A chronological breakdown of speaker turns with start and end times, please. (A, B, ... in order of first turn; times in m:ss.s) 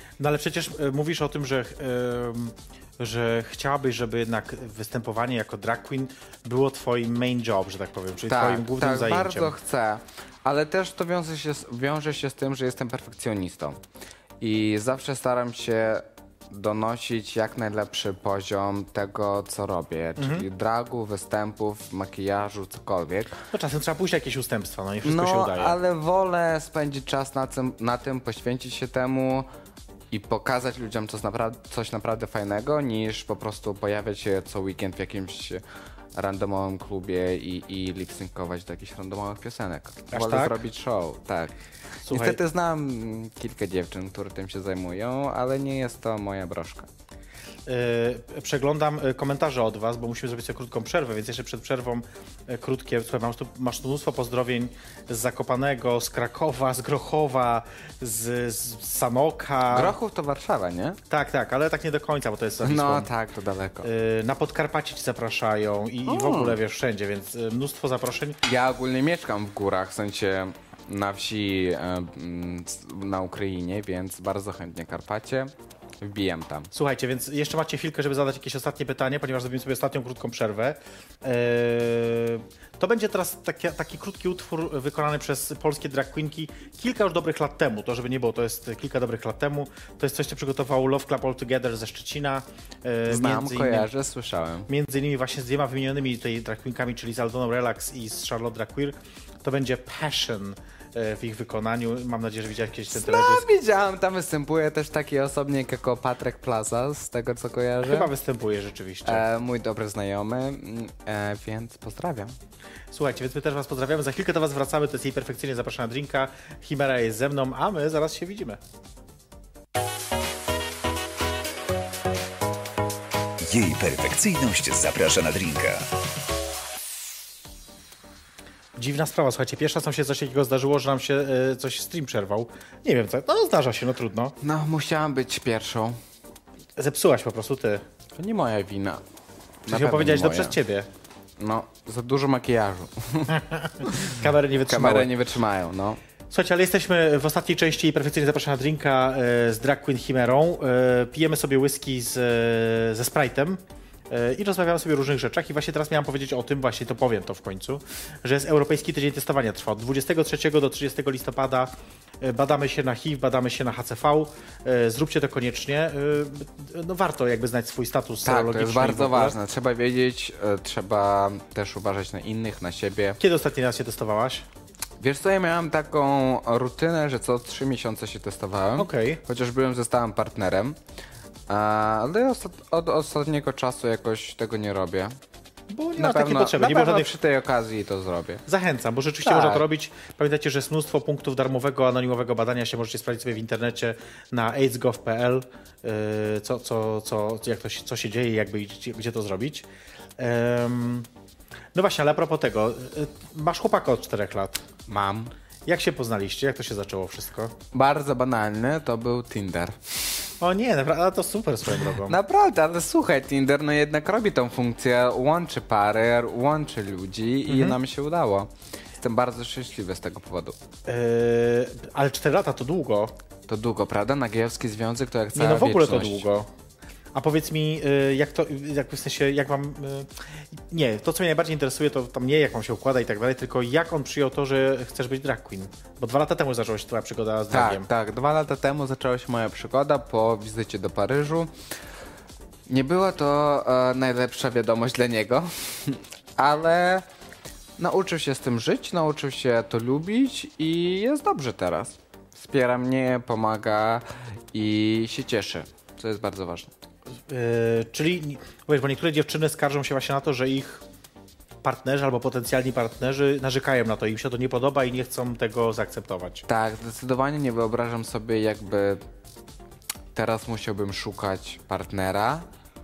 0:00.2-0:09.5 A
0:08.3-0:13.8 B
0:14.4-0:23.4 B
0:20.2-0:20.5 A
0:23.5-0:25.8 A
0:25.0-0:29.5 B
0:30.1-0:35.6 B
0:36.2-0:41.5 B
0:40.1-0:40.6 A
0:42.1-0:42.4 A
0:42.1-0:46.9 B
0:47.7-1:00.0 A
0:59.7-1:01.0 B
1:01.1-1:03.1 A
1:02.6-1:03.9 B
1:03.8-1:08.4 A
1:06.1-1:06.6 B
1:08.4-1:16.7 B
1:16.7-1:33.9 A
1:33.1-1:34.7 B
1:34.7-1:43.5 A
1:42.9-1:48.1 B
1:47.8-1:49.2 A
1:49.0-1:52.3 B
1:52.9-1:58.6 A
2:03.4-2:05.9 C
2:08.8-2:14.4 A
2:14.4-2:16.0 B
2:16.8-2:17.8 A
2:18.2-2:19.0 B
2:19.7-2:20.6 B
2:19.7-2:20.9 A
2:21.4-2:26.0 B
2:23.3-2:25.1 A
2:26.3-2:49.4 A
2:48.2-2:53.2 B
2:53.2-2:54.5 A
2:55.0-3:00.8 B
2:58.8-2:59.2 A
3:01.5-3:05.2 B
3:05.7-3:07.2 A
3:06.0-3:08.4 B
3:08.5-3:19.7 A
3:09.2-3:09.6 B
3:20.2-3:21.1 A
3:21.8-3:24.6 A
3:24.9-3:25.3 B
3:25.7-3:27.5 A
3:27.7-3:30.3 B
3:30.4-3:32.2 A
3:31.9-3:40.6 B
3:37.5-3:37.8 A
3:40.9-3:43.1 A
3:43.5-3:46.3 B
3:45.3-3:46.5 A
3:47.1-3:57.9 A
3:57.5-4:01.5 B
4:02.7-4:07.0 B
4:07.8-4:16.7 B
4:17.3-4:20.8 A
4:21.6-4:26.5 A
4:26.5-4:29.0 B
4:30.1-4:32.5 B